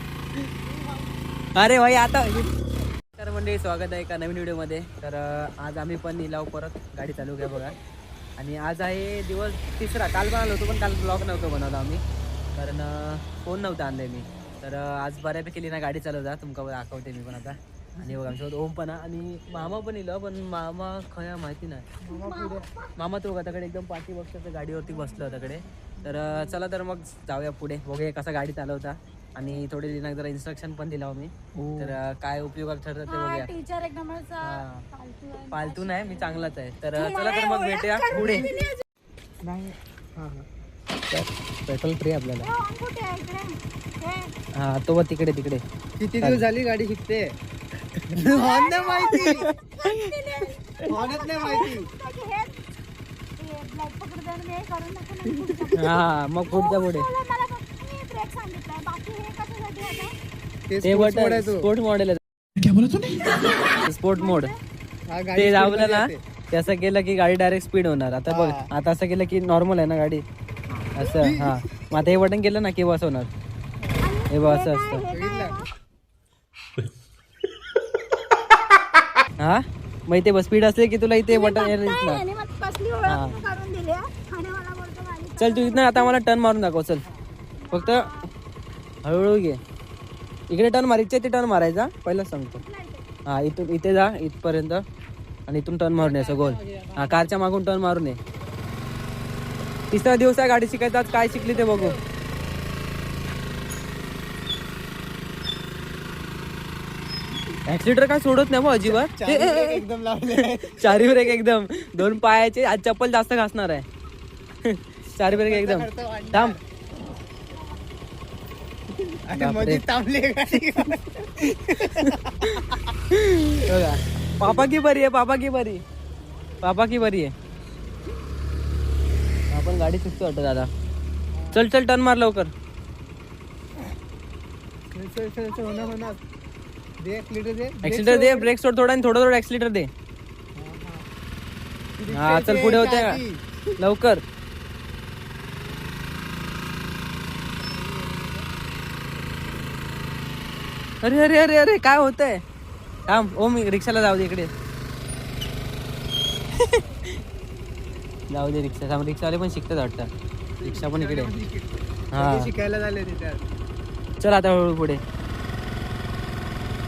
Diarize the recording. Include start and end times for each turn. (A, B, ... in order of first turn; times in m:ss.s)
0:01.6-0:02.5 A
0:03.1-0:07.8 A
0:08.4-0:12.0 A
0:12.6-0:21.9 A
0:18.0-0:18.4 B
0:22.0-0:22.9 C
0:22.0-0:22.6 B
0:23.0-0:33.5 A
0:31.6-0:32.0 B
0:33.1-0:38.8 C
0:34.4-0:34.8 A
0:35.5-0:38.5 A
0:38.1-0:38.6 B
0:39.4-0:40.4 B
0:41.1-0:42.5 A
0:42.4-0:44.3 C
0:44.6-0:45.6 A
0:46.0-0:47.3 B
0:48.1-0:49.5 B
0:48.3-0:52.6 C
0:49.1-0:49.9 A
0:50.9-0:51.9 B
0:53.4-1:00.2 C
0:55.7-0:57.0 A
1:00.7-1:01.7 B
1:00.8-1:02.2 A
1:02.7-1:03.0 B
1:03.7-1:04.5 A
1:04.1-1:04.6 C
1:05.1-1:06.2 B
1:05.4-1:10.2 A
1:08.3-1:08.7 B
1:10.7-1:11.1 C
1:11.0-1:13.3 A
1:11.1-1:11.6 B
1:14.0-1:15.7 C
1:14.3-1:15.1 A
1:15.1-1:15.6 B
1:19.4-1:22.2 A
1:21.3-1:26.2 C
1:23.0-1:23.4 A
1:25.4-1:27.0 A
1:27.6-1:28.3 C
1:27.7-1:28.1 A
1:29.0-1:29.6 A
1:30.5-1:32.6 A
1:32.6-1:33.1 C
1:33.3-1:34.8 A
1:35.5-1:38.2 A
1:39.9-1:42.0 A
1:41.3-1:41.9 C
1:47.7-1:49.8 A
1:48.8-1:51.3 B
1:50.8-1:53.9 A
1:54.6-1:56.6 A
1:55.2-1:56.6 B
1:59.2-2:03.0 B
1:59.4-1:59.8 A
2:01.8-2:05.8 A
2:06.6-2:07.3 A
2:09.5-2:10.7 A
2:11.3-2:11.7 B
2:11.5-2:12.5 A
2:14.9-2:16.2 B
2:15.5-2:16.2 C
2:17.0-2:18.5 B
2:17.8-2:19.9 A
2:20.6-2:21.0 B
2:22.0-2:23.6 B
2:22.1-2:23.2 A
2:23.8-2:24.2 A
2:27.6-2:28.4 B
2:31.0-2:32.4 A
2:33.1-2:34.5 A
2:36.5-2:36.8 A
2:38.3-2:40.1 A
2:40.6-2:43.4 B
2:40.6-2:41.3 A
2:42.1-2:42.5 A
2:44.2-2:45.0 A